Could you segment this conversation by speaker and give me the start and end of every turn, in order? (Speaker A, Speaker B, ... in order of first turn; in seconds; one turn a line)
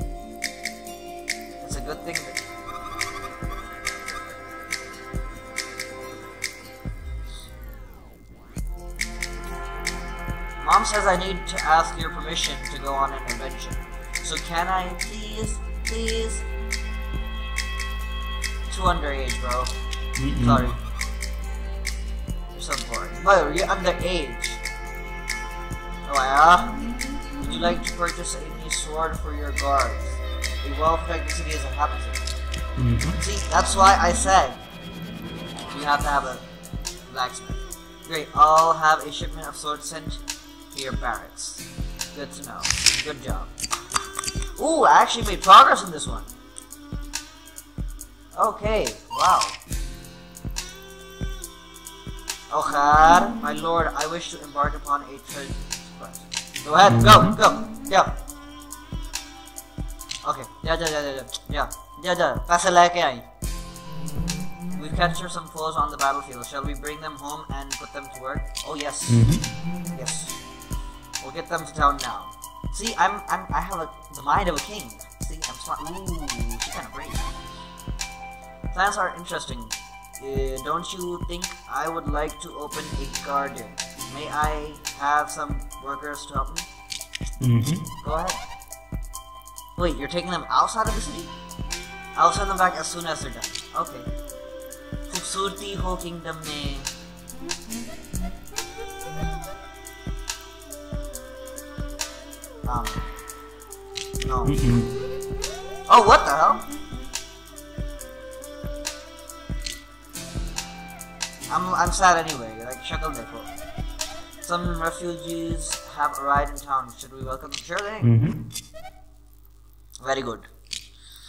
Speaker A: 1.6-2.4
Speaker A: 10.6-16.4
Speaker A: 18.7-19.8
Speaker B: 20.2-20.7
Speaker A: 20.4-20.8
Speaker A: 22.5-24.6
Speaker A: 26.1-26.8
Speaker A: 27.4-32.2
Speaker B: 32.8-33.2
Speaker A: 33.1-34.6
Speaker A: 35.7-36.5
Speaker A: 37.1-43.5
Speaker A: 44.6-46.3
Speaker A: 48.4-49.6
Speaker A: 52.5-58.1
Speaker B: 56.9-57.4
Speaker A: 60.2-63.3
Speaker A: 64.8-69.3
Speaker B: 69.1-69.4
Speaker A: 69.9-70.4
Speaker A: 71.2-77.3
Speaker A: 78.7-86.7
Speaker B: 87.4-87.8
Speaker A: 88.0-88.4
Speaker A: 89.8-91.3
Speaker A: 92.2-94.1
Speaker A: 95.1-96.9
Speaker A: 102.7-103.1
Speaker A: 104.2-104.6
Speaker B: 104.5-104.9
Speaker A: 105.9-106.7
Speaker A: 111.5-113.5
Speaker A: 114.4-118.1
Speaker B: 118.0-118.4
Speaker A: 120.0-120.5